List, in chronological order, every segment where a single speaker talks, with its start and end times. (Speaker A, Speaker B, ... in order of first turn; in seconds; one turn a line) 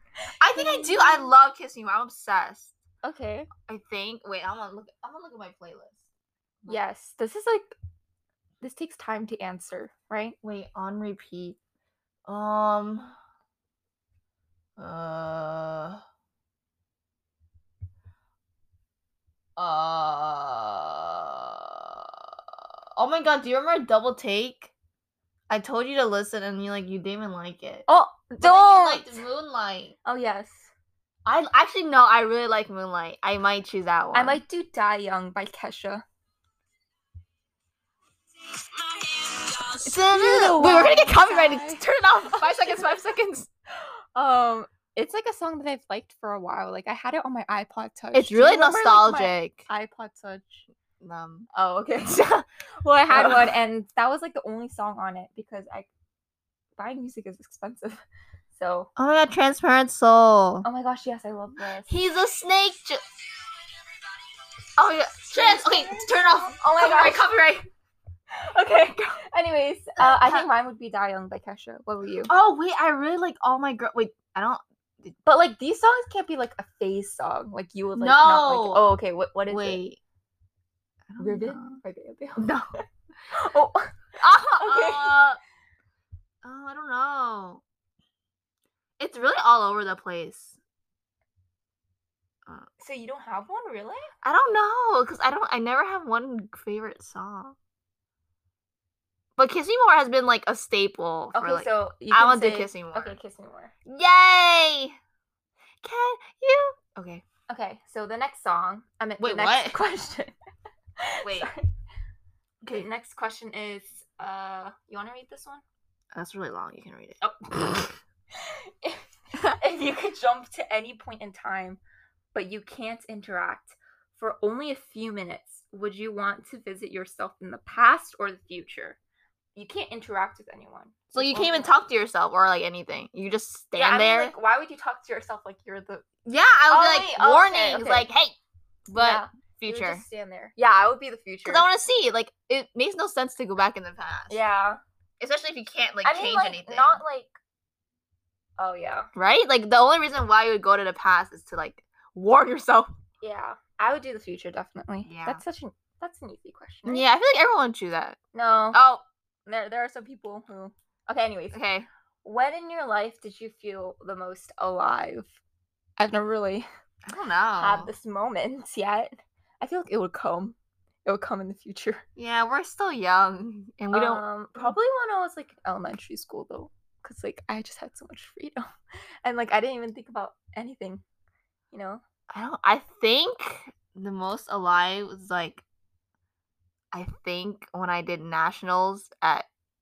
Speaker A: 0.4-2.7
Speaker B: 0.5-1.3
Speaker B: 3.0-3.5
Speaker A: 3.7-6.1
Speaker B: 6.7-7.8
Speaker B: 8.6-10.4
Speaker A: 10.4-11.6
Speaker A: 12.3-13.1
Speaker A: 14.8-16.0
Speaker A: 19.6-22.4
Speaker A: 22.9-24.7
Speaker A: 25.5-27.9
Speaker B: 27.9-29.2
Speaker A: 28.4-29.9
Speaker B: 30.0-30.7
Speaker A: 31.2-34.4
Speaker B: 34.1-36.0
Speaker A: 38.8-43.5
Speaker B: 39.8-42.7
Speaker B: 44.1-50.6
Speaker A: 48.1-49.6
Speaker A: 51.0-51.5
Speaker B: 51.5-52.2
Speaker A: 52.0-52.4
Speaker B: 52.8-55.9
Speaker A: 53.1-53.5
Speaker B: 56.8-58.0
Speaker B: 58.5-58.9
Speaker A: 59.0-60.6
Speaker B: 60.6-61.9
Speaker A: 61.9-63.0
Speaker A: 64.8-67.7
Speaker B: 65.3-66.0
Speaker B: 66.6-67.2
Speaker B: 68.3-72.3
Speaker A: 70.0-70.5
Speaker A: 72.3-75.1
Speaker B: 75.2-79.8
Speaker A: 78.0-78.8
Speaker A: 79.5-80.0
Speaker A: 81.1-81.8
Speaker B: 81.2-85.2
Speaker A: 82.4-82.7
Speaker A: 84.2-85.4
Speaker A: 86.4-87.6
Speaker A: 89.0-90.6
Speaker B: 92.8-94.1
Speaker A: 94.2-97.5
Speaker A: 99.4-103.2
Speaker B: 101.3-103.7
Speaker A: 103.8-105.0
Speaker A: 105.8-107.2
Speaker B: 107.5-110.3
Speaker A: 109.2-109.7
Speaker B: 111.0-111.7
Speaker A: 111.2-111.5
Speaker A: 112.6-112.9
Speaker B: 112.7-115.6
Speaker A: 116.1-117.2
Speaker B: 117.2-121.8
Speaker B: 122.3-129.0
Speaker B: 129.5-131.7
Speaker A: 131.1-134.3
Speaker B: 133.8-136.0
Speaker A: 136.2-138.3
Speaker B: 136.7-138.1
Speaker A: 138.9-140.0
Speaker B: 138.9-141.7
Speaker A: 141.4-144.4
Speaker B: 144.3-144.8
Speaker A: 145.2-147.0
Speaker B: 146.0-147.3
Speaker B: 148.6-149.1
Speaker A: 149.1-152.9
Speaker B: 153.2-157.1
Speaker A: 155.1-155.4
Speaker A: 156.8-158.2
Speaker B: 158.3-158.8
Speaker A: 158.7-159.0
Speaker B: 159.4-161.6
Speaker A: 161.5-161.9
Speaker B: 162.2-165.3
Speaker B: 166.0-166.7
Speaker A: 167.1-167.9
Speaker B: 167.6-172.0
Speaker A: 172.2-174.7
Speaker B: 173.9-178.6
Speaker B: 179.2-181.0
Speaker B: 181.7-182.0
Speaker A: 182.3-185.6
Speaker A: 186.9-189.5